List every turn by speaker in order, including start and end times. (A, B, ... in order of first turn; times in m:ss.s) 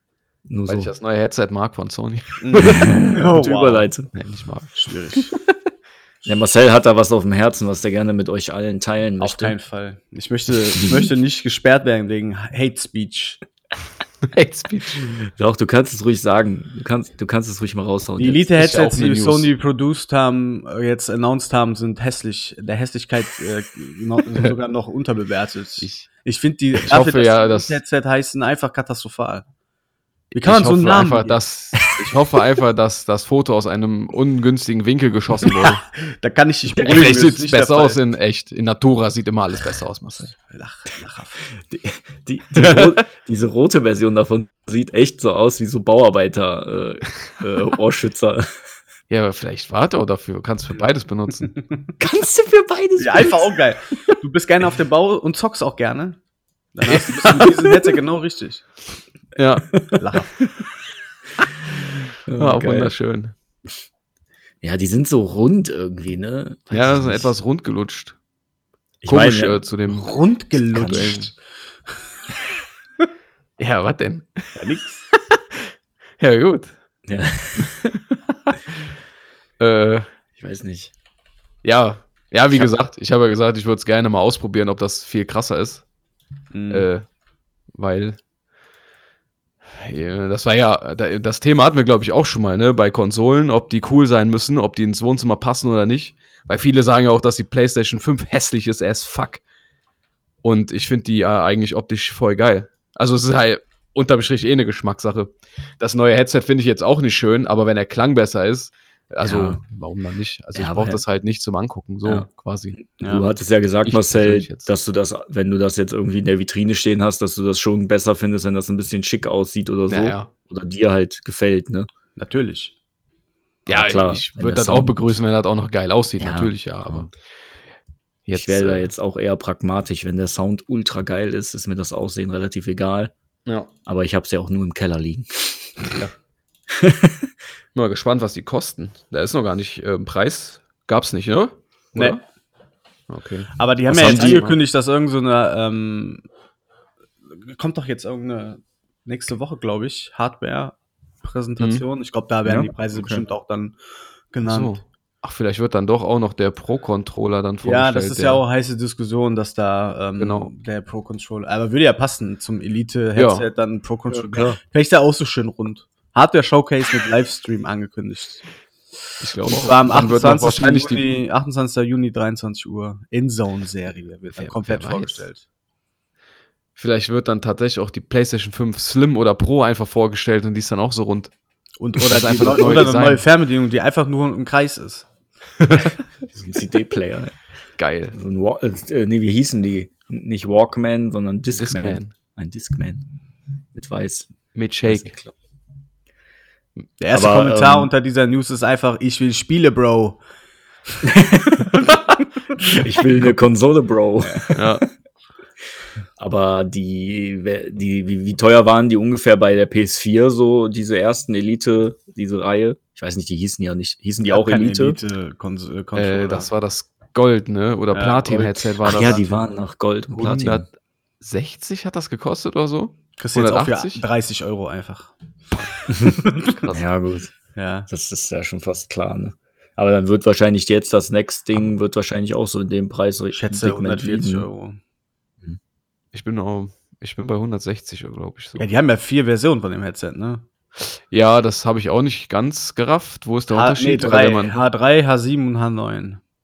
0:00.5-0:00.9 A
0:00.7-0:02.9 B
0:02.4-0:03.9 C
0:02.6-0:04.1 A
0:04.1-0:04.7 B
0:04.7-0:05.4 C
0:06.2-0:09.6 A
0:09.2-0:13.4 C
0:10.7-0:11.1 A
0:14.2-0:15.1 B
0:15.0-0:18.4 A
0:18.2-0:29.4 C
0:18.6-0:19.5 B
0:25.8-0:26.1 B
0:26.8-0:27.8 B
0:30.3-0:31.4 C
0:30.4-0:35.8 B
0:35.6-0:38.0 C
0:36.8-0:40.3 B
0:40.4-0:41.5 C
0:41.6-0:48.4 A
0:42.6-0:43.0 B
0:49.1-0:51.5 B
0:52.0-0:53.5 A
0:53.0-0:56.2 C
0:56.7-0:58.6 C
0:56.8-0:57.6 B
0:59.4-0:59.7 B
0:59.7-1:00.5 A
1:00.0-1:00.4 C
1:02.2-1:02.9 A
1:02.4-1:03.3 B
1:04.6-1:07.3 A
1:06.7-1:08.2 B
1:09.0-1:09.6 A
1:09.1-1:10.1 B
1:09.9-1:11.4 C
1:10.7-1:11.2 A
1:10.8-1:11.3 B
1:13.6-1:14.6 B
1:14.6-1:15.0 C
1:15.1-1:16.7 B
1:17.0-1:17.9 A
1:19.6-1:20.1 B
1:20.4-1:20.9 A
1:21.6-1:25.8 B
1:26.5-1:26.9 C
1:26.7-1:27.0 B
1:27.7-1:28.2 B
1:29.8-1:39.4 B
1:40.4-1:52.8 B
1:49.2-1:49.6 A
1:50.5-1:51.0 A
1:52.0-2:01.9 A
1:53.8-1:54.7 B
1:59.9-2:00.3 B
2:02.2-2:02.7 C
2:03.6-2:05.0 A
2:03.7-2:07.1 B
2:06.2-2:07.1 A
2:08.3-2:08.9 B
2:08.3-2:13.1 A
2:13.8-2:15.9 A
2:16.7-2:17.3 A
2:17.7-2:22.2 B
2:23.1-2:24.6 B
2:23.6-2:26.2 C
2:23.9-2:24.4 A
2:27.3-2:33.8 C
2:31.6-2:31.8 B
2:32.4-2:33.2 A
2:34.3-2:34.8 C
2:34.4-2:38.4 B
2:37.6-2:48.5 C
2:40.2-2:40.5 B
2:43.2-2:43.5 B
2:44.1-2:44.6 A
2:49.2-2:51.0 B
2:49.5-2:55.4 C
2:54.3-2:55.2 B
2:56.8-3:01.3 B
3:01.8-3:05.1 C
3:02.0-3:03.2 B
3:05.6-3:06.0 B
3:06.3-3:07.3 A
3:07.8-3:08.1 B
3:08.1-3:13.0 A
3:11.5-3:12.1 B
3:13.7-3:14.3 A
3:14.5-3:15.1 B
3:14.8-3:15.3 A
3:17.0-3:20.2 C
3:17.1-3:17.9 A
3:21.0-3:21.7 A
3:21.8-3:22.2 B
3:22.6-3:24.6 A
3:24.5-3:24.8 B
3:26.2-3:35.0 A
3:34.2-3:36.5 C
3:35.9-3:39.2 B
3:37.9-3:38.6 C
3:38.8-3:40.6 A
3:40.2-3:40.7 B
3:41.2-3:44.0 B
3:43.2-3:45.1 C
3:45.9-3:47.3 A
3:46.3-3:46.6 C
3:46.5-3:46.8 B
3:47.5-3:47.9 C
3:47.9-3:54.5 A
3:53.3-3:54.8 C
3:56.1-3:58.7 B
3:58.6-4:00.4 C
4:01.1-4:04.5 B
4:03.5-4:06.2 C